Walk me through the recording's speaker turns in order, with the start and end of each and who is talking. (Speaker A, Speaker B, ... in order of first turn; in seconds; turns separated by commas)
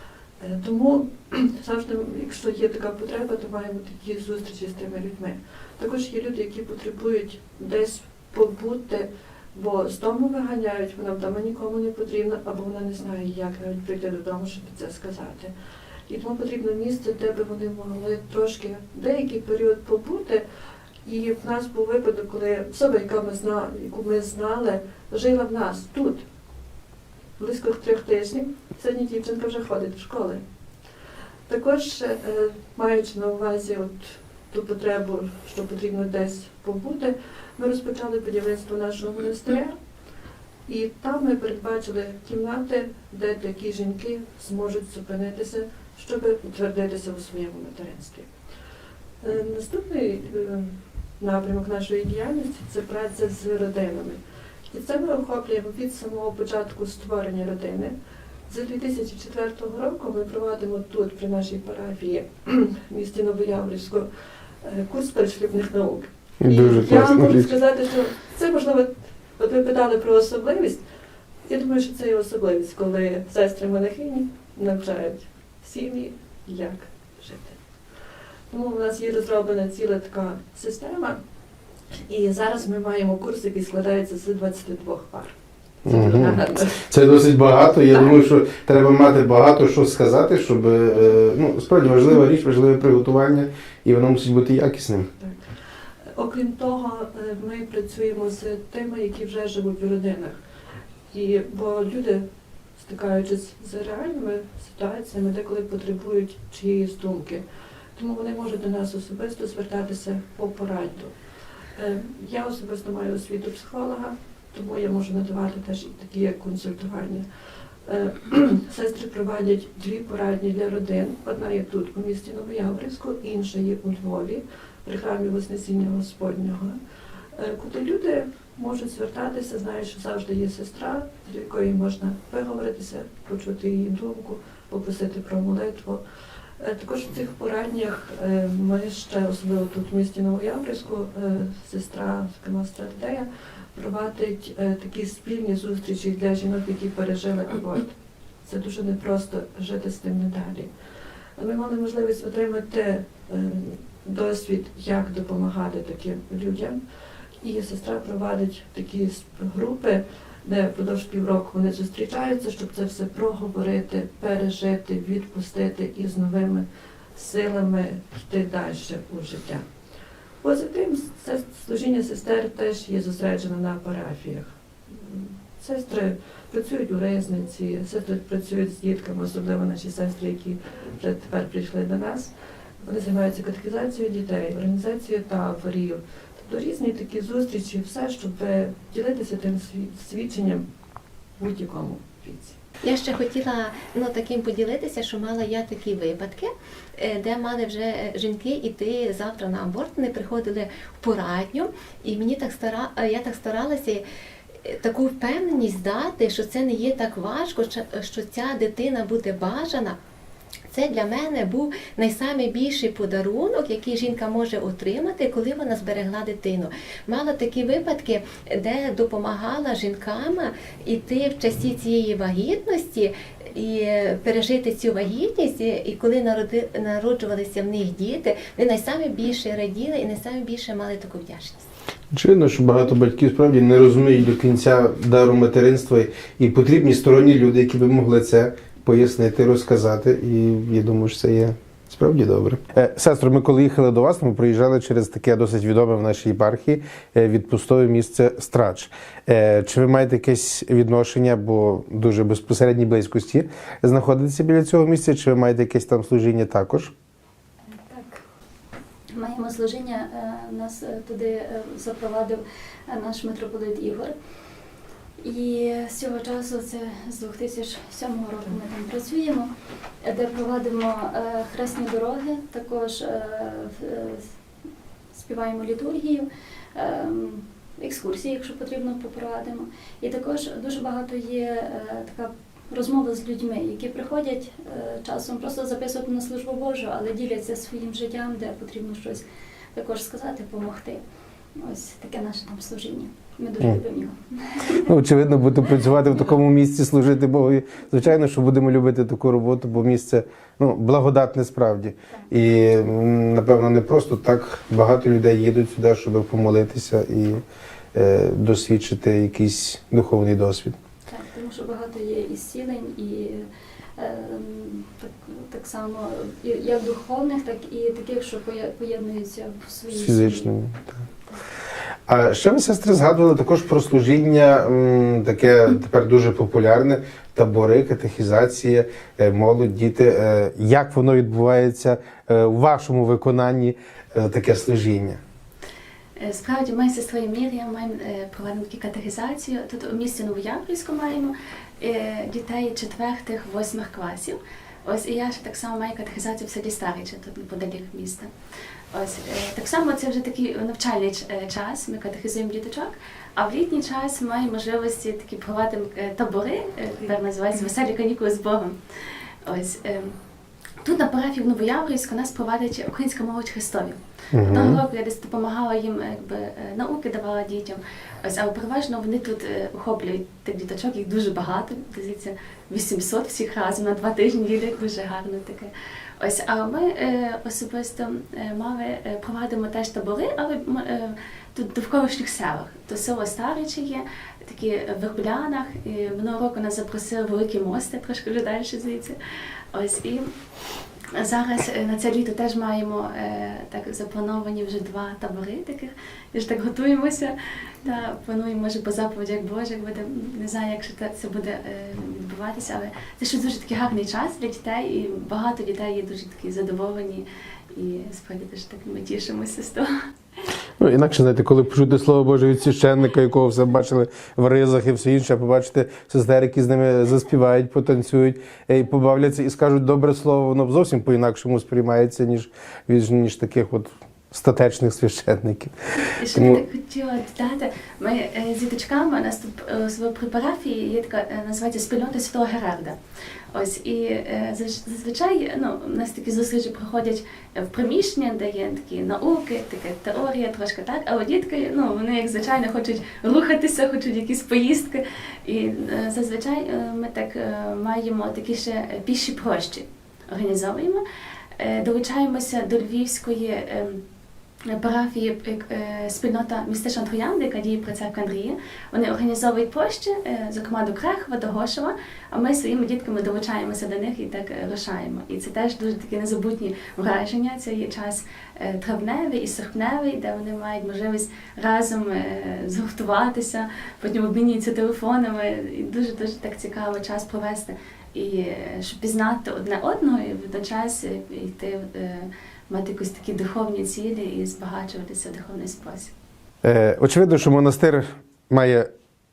Speaker A: 0.4-15.5, Speaker A: 16.1-20.4, Speaker A: 21.1-26.2, Speaker A: 27.4-30.4, Speaker A: 31.5-39.8, Speaker A: 40.7-48.3, Speaker A: 49.2-58.0, Speaker A: 58.5-64.1, Speaker A: 64.6-70.8, Speaker B: 66.4-67.5, Speaker A: 71.5-77.6, Speaker A: 78.5-81.2, Speaker A: 81.9-86.8, Speaker B: 85.9-95.1, Speaker A: 87.9-88.2, Speaker A: 95.2-95.5, Speaker A: 96.2-100.4, Speaker A: 101.1-102.2, Speaker A: 102.8-107.4, Speaker A: 108.0-111.1, Speaker A: 111.8-117.2, Speaker A: 117.9-126.8, Speaker A: 127.3-136.0, Speaker A: 136.6-147.9, Speaker A: 148.4-150.7, Speaker A: 151.4-156.8, Speaker A: 157.4-169.7, Speaker A: 170.4-182.3, Speaker A: 182.8-190.7, Speaker A: 191.4-192.6, Speaker C: 192.8-204.1, Speaker C: 204.7-210.0, Speaker C: 210.7-231.7, Speaker B: 232.1-256.9, Speaker D: 257.7-258.2, Speaker D: 259.1-264.1, Speaker D: 265.2-269.5, Speaker D: 270.0-274.3, Speaker D: 275.1-289.2, Speaker D: 289.8-291.0, Speaker D: 291.6-294.9, Speaker B: 294.8-307.4, Speaker B: 307.9-310.8, Speaker D: 311.1-320.5, Speaker B: 319.9-321.0, Speaker B: 322.1-335.2, Speaker E: 336.2-348.3, Speaker E: 348.9-360.1, Speaker E: 360.8-389.2, Speaker B: 364.3-364.8, Speaker E: 389.7-390.3, Speaker E: 391.1-409.9, Speaker B: 410.8-425.7, Speaker E: 426.1-433.0, Speaker B: 426.3-426.6, Speaker E: 433.5-451.0, Speaker E: 451.6-454.0, Speaker E: 454.7-486.1, Speaker B: 486.6-488.9